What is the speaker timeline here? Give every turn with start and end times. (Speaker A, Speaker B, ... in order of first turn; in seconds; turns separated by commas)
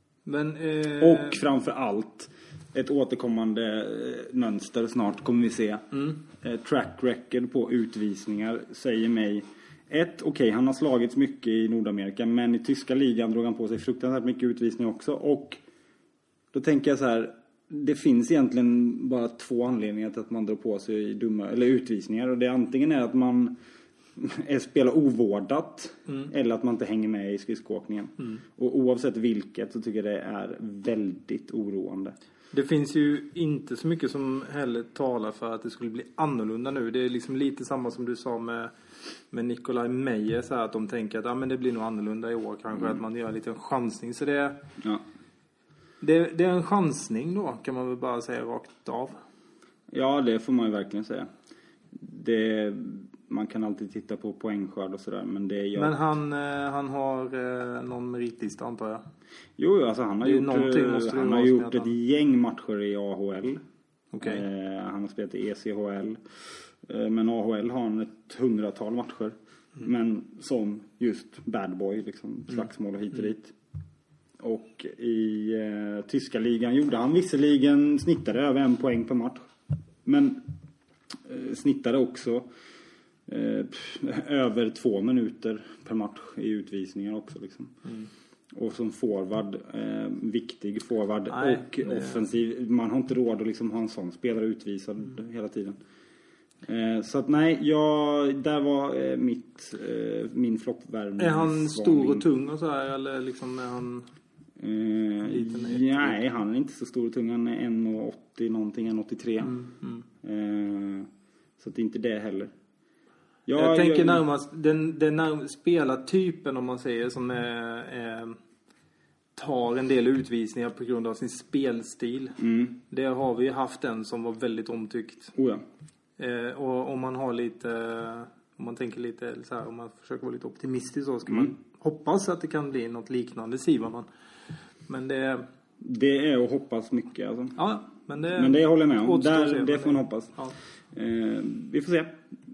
Speaker A: 0.2-1.4, Speaker B: 1.0-15.6, Speaker B: 16.5-23.6, Speaker B: 24.2-32.2, Speaker A: 32.5-38.7, Speaker A: 39.3-44.6, Speaker A: 46.0-49.2, Speaker B: 49.9-51.3, Speaker B: 51.9-56.0, Speaker A: 55.8-59.0, Speaker B: 59.6-63.6, Speaker A: 60.2-61.9, Speaker A: 64.1-64.4, Speaker B: 64.2-73.5, Speaker B: 74.4-79.5, Speaker B: 80.0-80.4, Speaker B: 81.3-82.5, Speaker B: 83.3-87.8, Speaker B: 88.5-95.8, Speaker A: 91.3-92.2, Speaker B: 96.6-102.3, Speaker A: 101.2-104.1, Speaker B: 104.6-109.7, Speaker A: 105.2-106.2, Speaker A: 109.5-110.0, Speaker B: 110.2-112.5, Speaker B: 113.5-114.2, Speaker A: 113.6-118.4, Speaker A: 119.4-125.3, Speaker B: 122.4-122.8, Speaker B: 125.3-125.6, Speaker A: 126.2-134.1, Speaker A: 134.9-135.5, Speaker B: 135.8-137.6, Speaker A: 137.6-140.5, Speaker B: 138.3-140.4, Speaker B: 140.9-142.2